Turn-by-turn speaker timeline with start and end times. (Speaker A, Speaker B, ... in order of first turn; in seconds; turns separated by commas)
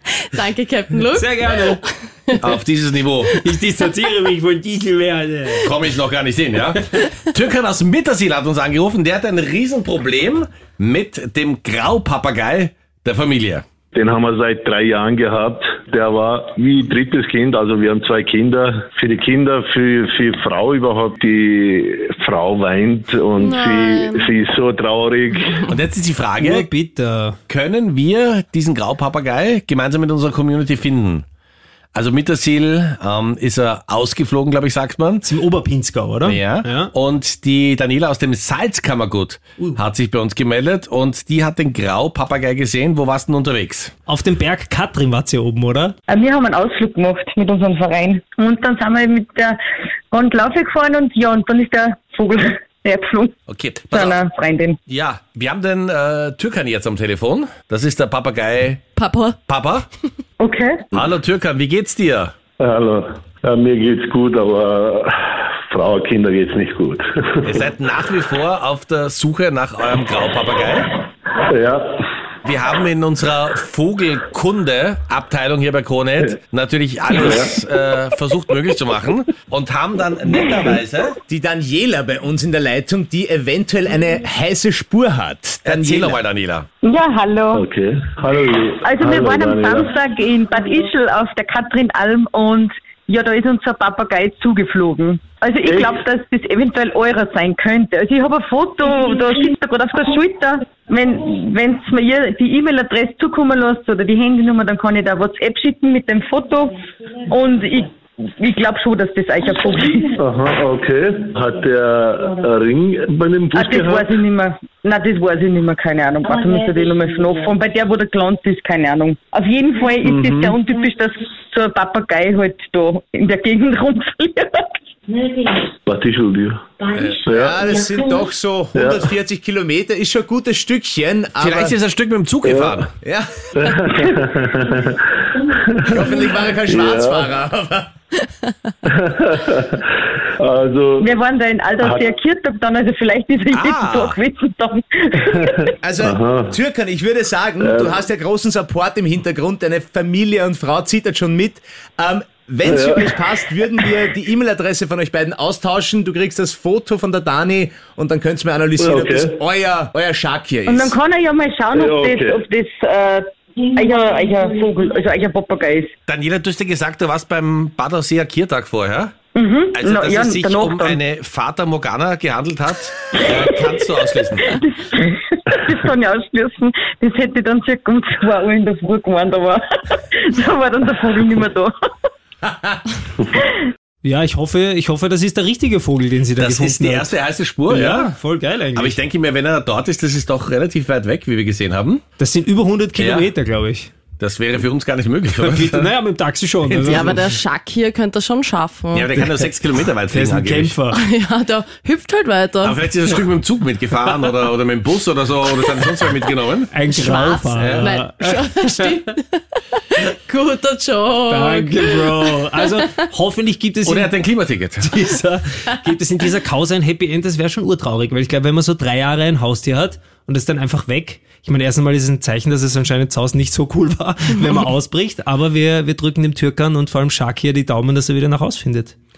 Speaker A: 0.4-1.3, Speaker B: 1.1-1.8, Speaker C: 2.4-3.3, Speaker B: 3.3-5.7, Speaker C: 5.6-13.7, Speaker D: 13.9-25.6, Speaker A: 23.4-24.2, Speaker C: 25.7-26.7, Speaker B: 26.4-27.4, Speaker C: 27.5-31.2, Speaker C: 31.9-35.3, Speaker B: 35.2-36.9, Speaker C: 36.2-43.9, Speaker B: 44.1-46.0, Speaker E: 46.1-49.5, Speaker E: 50.1-53.3, Speaker C: 53.5-54.2, Speaker E: 53.9-54.8, Speaker C: 54.9-58.9, Speaker A: 59.0-59.3, Speaker C: 59.5-59.9, Speaker E: 60.4-60.8, Speaker C: 60.9-62.3, Speaker D: 62.6-67.6, Speaker C: 67.5-70.8, Speaker D: 71.5-72.0, Speaker C: 72.5-81.2, Speaker D: 77.1-77.5, Speaker F: 81.3-86.2, Speaker C: 85.6-86.7, Speaker E: 86.8-87.6, Speaker D: 87.5-89.9, Speaker E: 88.8-106.8, Speaker D: 95.7-96.0, Speaker E: 107.3-110.1, Speaker D: 110.2-114.1, Speaker E: 113.5-124.5, Speaker D: 120.0-120.6, Speaker D: 125.9-127.8, Speaker C: 127.0-127.3, Speaker F: 127.4-131.8, Speaker D: 128.7-129.2, Speaker C: 131.4-132.9, Speaker D: 132.4-132.9, Speaker F: 133.0-133.4, Speaker D: 133.6-135.0, Speaker D: 135.8-137.4, Speaker F: 135.9-137.9, Speaker D: 138.9-139.8, Speaker D: 140.4-141.1, Speaker E: 141.0-145.5, Speaker D: 141.8-142.1, Speaker C: 143.5-144.2, Speaker F: 145.8-161.0, Speaker D: 145.9-146.6, Speaker D: 147.6-148.1, Speaker D: 152.6-153.6, Speaker D: 158.8-159.4, Speaker E: 160.7-165.9, Speaker D: 161.7-162.4, Speaker C: 166.1-169.1, Speaker E: 169.3-171.0, Speaker C: 169.7-174.6, Speaker E: 174.5-181.7, Speaker B: 184.0-187.1, Speaker C: 186.4-188.1, Speaker B: 187.7-189.0, Speaker C: 188.7-192.0, Speaker B: 192.2-193.9, Speaker C: 193.0-193.3, Speaker C: 194.2-195.9, Speaker B: 195.4-197.3, Speaker C: 196.7-197.2, Speaker A: 197.1-199.0, Speaker C: 198.9-200.8, Speaker B: 199.2-199.5, Speaker B: 200.1-201.0, Speaker A: 201.2-202.7, Speaker C: 202.6-206.7, Speaker B: 206.7-209.0, Speaker A: 207.0-209.0, Speaker C: 207.5-207.9, Speaker A: 210.3-211.6, Speaker B: 211.3-214.1, Speaker C: 213.8-214.9, Speaker B: 214.8-228.9